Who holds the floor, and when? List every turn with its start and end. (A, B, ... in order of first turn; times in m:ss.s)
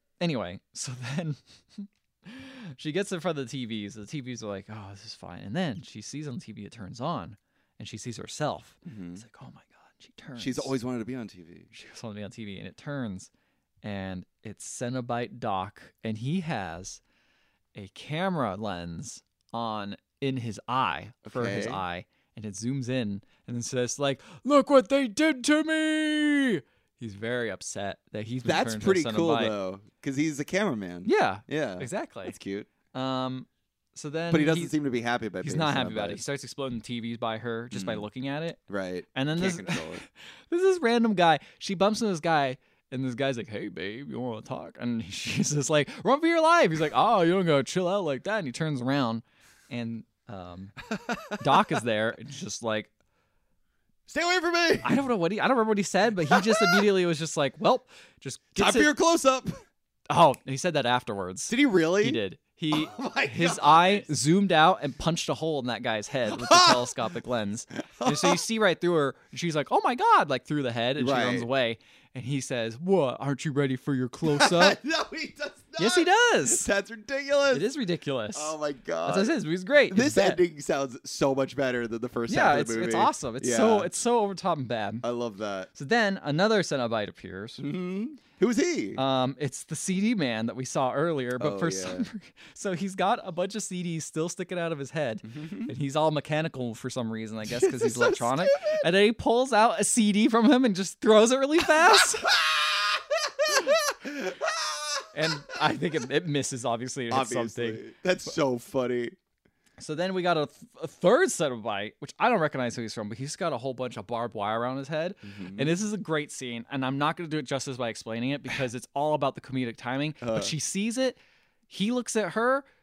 0:00.2-0:10.7 A
0:08.8-0:09.2 B
0:10.4-0:11.7 B
0:11.7-0:13.3 A
0:13.8-0:17.0 A
0:17.7-0:29.5 A
0:21.2-0:21.8 B
0:28.4-0:32.7 B
0:31.0-0:32.3 A
0:32.9-0:34.7 A
0:34.3-0:36.2 B
0:35.4-0:38.6 A
0:37.7-0:38.1 B
0:38.7-0:40.0 B
0:39.1-0:50.8 A
0:50.9-0:51.8 B
0:51.4-0:52.9 A
0:54.1-0:55.0 B
0:54.8-0:58.9 A
0:56.3-0:56.9 B
0:58.6-0:59.6 B
1:00.1-1:14.8 A
1:01.5-1:04.1 B
1:06.3-1:07.0 B
1:07.8-1:08.4 B
1:11.0-1:11.5 B
1:14.2-1:17.6 B
1:15.8-1:16.7 A
1:17.5-1:20.4 A
1:18.3-1:19.3 B
1:19.9-1:23.9 B
1:22.3-1:25.0 A
1:25.0-1:25.7 B
1:25.7-1:27.6 A
1:27.6-1:29.0 B
1:29.0-1:42.3 A
1:31.4-1:32.1 B
1:35.3-1:35.7 B
1:37.5-1:38.8 B
1:42.2-1:45.0 B
1:45.1-1:47.8 A
1:47.1-1:49.2 B
1:49.8-2:01.2 A
1:55.2-1:55.7 B
2:00.2-2:00.5 B
2:01.7-2:02.6 A